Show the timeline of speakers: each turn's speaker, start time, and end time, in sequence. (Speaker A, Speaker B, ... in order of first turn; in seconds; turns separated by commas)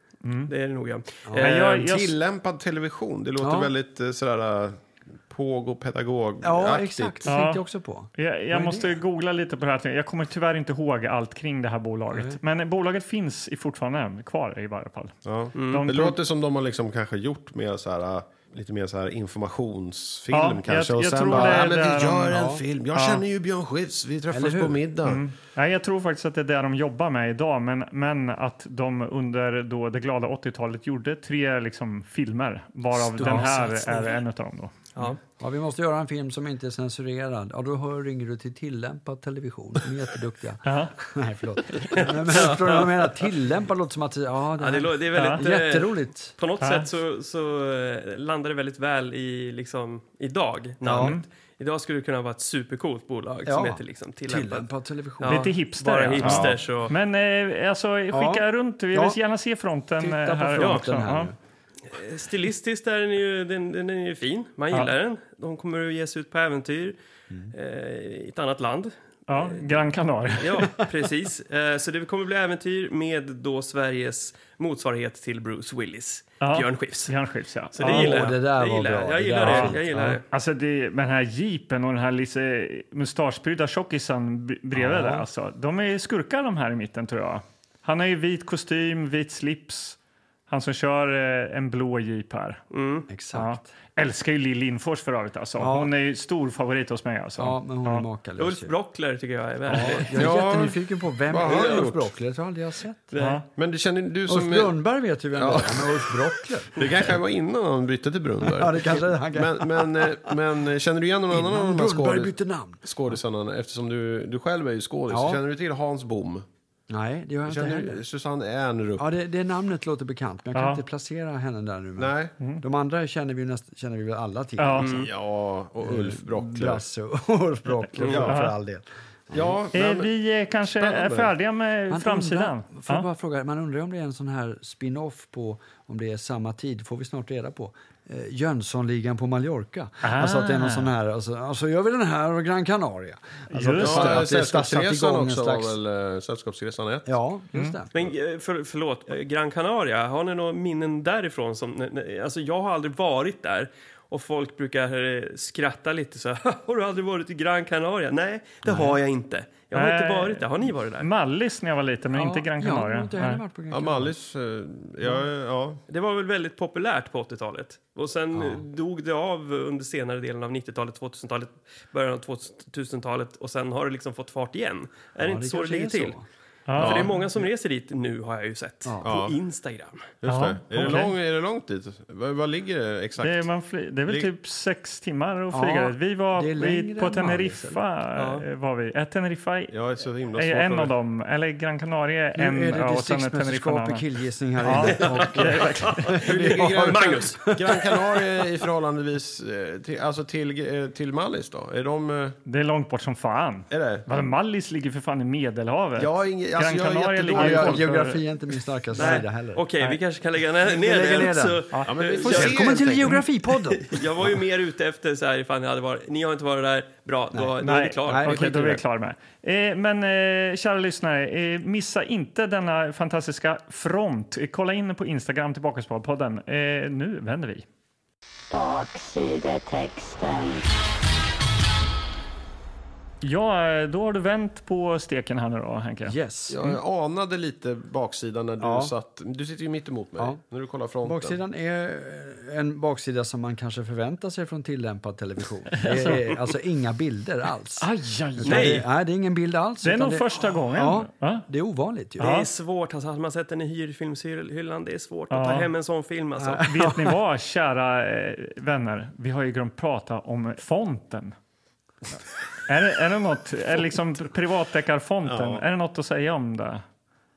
Speaker A: 0.2-0.5, Speaker B: 0.5-1.7, Speaker C: 1.2-1.5, Speaker A: 1.4-2.1, Speaker D: 1.5-7.2, Speaker C: 3.4-3.7, Speaker C: 6.4-9.0, Speaker A: 7.3-7.6, Speaker A: 8.2-15.1, Speaker C: 12.1-12.4, Speaker D: 15.2-25.2, Speaker B: 15.6-15.8, Speaker A: 15.7-16.2, Speaker A: 20.3-22.3, Speaker C: 21.2-21.7, Speaker C: 22.3-22.6, Speaker A: 22.9-23.2, Speaker C: 24.3-24.8, Speaker A: 25.0-34.9, Speaker C: 32.9-34.1, Speaker C: 35.4-46.3, Speaker A: 40.6-40.9, Speaker B: 42.0-42.9, Speaker B: 44.6-54.7, Speaker A: 45.1-45.4, Speaker A: 46.6-46.9, Speaker C: 50.8-51.2, Speaker A: 50.9-51.2, Speaker C: 53.4-56.6, Speaker B: 55.2-56.9, Speaker A: 55.3-61.3, Speaker C: 58.1-59.2, Speaker C: 60.0-61.4, Speaker B: 60.6-60.8, Speaker B: 61.9-67.0, Speaker B: 67.5-69.8, Speaker A: 69.3-70.6, Speaker B: 70.4-77.1, Speaker A: 76.4-78.3, Speaker B: 77.7-80.2, Speaker C: 77.8-80.2, Speaker A: 79.4-79.7, Speaker A: 80.3-90.0, Speaker C: 84.7-85.3, Speaker A: 90.5-92.6, Speaker B: 92.7-93.1, Speaker C: 93.1-93.7, Speaker A: 93.3-98.0, Speaker C: 95.6-95.9, Speaker C: 97.4-98.7, Speaker B: 98.4-100.4, Speaker C: 99.7-103.1, Speaker D: 100.2-102.1, Speaker B: 101.4-101.8, Speaker B: 103.1-103.4, Speaker A: 103.2-103.4, Speaker D: 103.5-104.7, Speaker C: 104.3-107.1, Speaker D: 105.3-106.2, Speaker D: 106.7-112.3, Speaker C: 108.4-110.3, Speaker C: 111.3-112.8, Speaker D: 112.8-116.4, Speaker C: 115.1-115.4, Speaker C: 116.9-118.0, Speaker D: 117.5-119.1, Speaker C: 119.0-125.1, Speaker A: 120.5-120.8, Speaker D: 122.0-122.3, Speaker A: 124.6-124.9, Speaker D: 124.8-126.8, Speaker C: 125.8-129.6, Speaker A: 128.0-128.5, Speaker D: 128.0-128.4, Speaker D: 129.3-130.1, Speaker A: 129.7-133.1, Speaker D: 130.6-131.3, Speaker C: 131.9-145.8, Speaker A: 140.0-140.9, Speaker A: 143.5-144.3, Speaker D: 143.8-147.1, Speaker C: 147.1-147.9, Speaker B: 147.9-161.1, Speaker C: 158.7-159.0, Speaker A: 159.8-163.4, Speaker C: 162.1-164.1, Speaker D: 163.7-165.8, Speaker B: 165.9-176.2, Speaker C: 168.3-168.7, Speaker C: 175.2-176.2, Speaker A: 176.7-177.1, Speaker D: 176.8-177.2, Speaker B: 176.8-180.1, Speaker C: 178.8-179.2, Speaker D: 179.0-179.3, Speaker D: 180.2-183.5, Speaker A: 180.3-181.1, Speaker A: 183.2-189.7, Speaker C: 185.5-187.8, Speaker B: 188.2-188.4, Speaker D: 189.7-190.9, Speaker A: 190.4-194.0, Speaker C: 192.3-198.3, Speaker A: 194.6-196.1, Speaker B: 194.8-197.6, Speaker D: 196.4-202.4, Speaker A: 202.5-208.2, Speaker D: 203.7-204.1, Speaker D: 206.0-207.9, Speaker C: 207.3-210.0, Speaker B: 208.9-218.8, Speaker C: 210.6-211.6, Speaker D: 211.9-213.2, Speaker C: 212.2-214.3, Speaker C: 217.3-218.4, Speaker A: 217.6-227.7, Speaker E: 228.5-230.7, Speaker A: 233.2-236.1, Speaker C: 236.1-236.7, Speaker D: 236.5-241.4, Speaker C: 238.6-238.9, Speaker C: 241.0-252.3, Speaker A: 245.8-246.2, Speaker A: 247.8-248.8, Speaker B: 248.4-248.9, Speaker A: 249.8-251.4, Speaker A: 252.2-252.5, Speaker B: 252.2-256.7, Speaker A: 255.3-255.7, Speaker C: 256.4-257.1, Speaker A: 256.6-261.3, Speaker A: 262.7-266.8, Speaker D: 265.2-265.6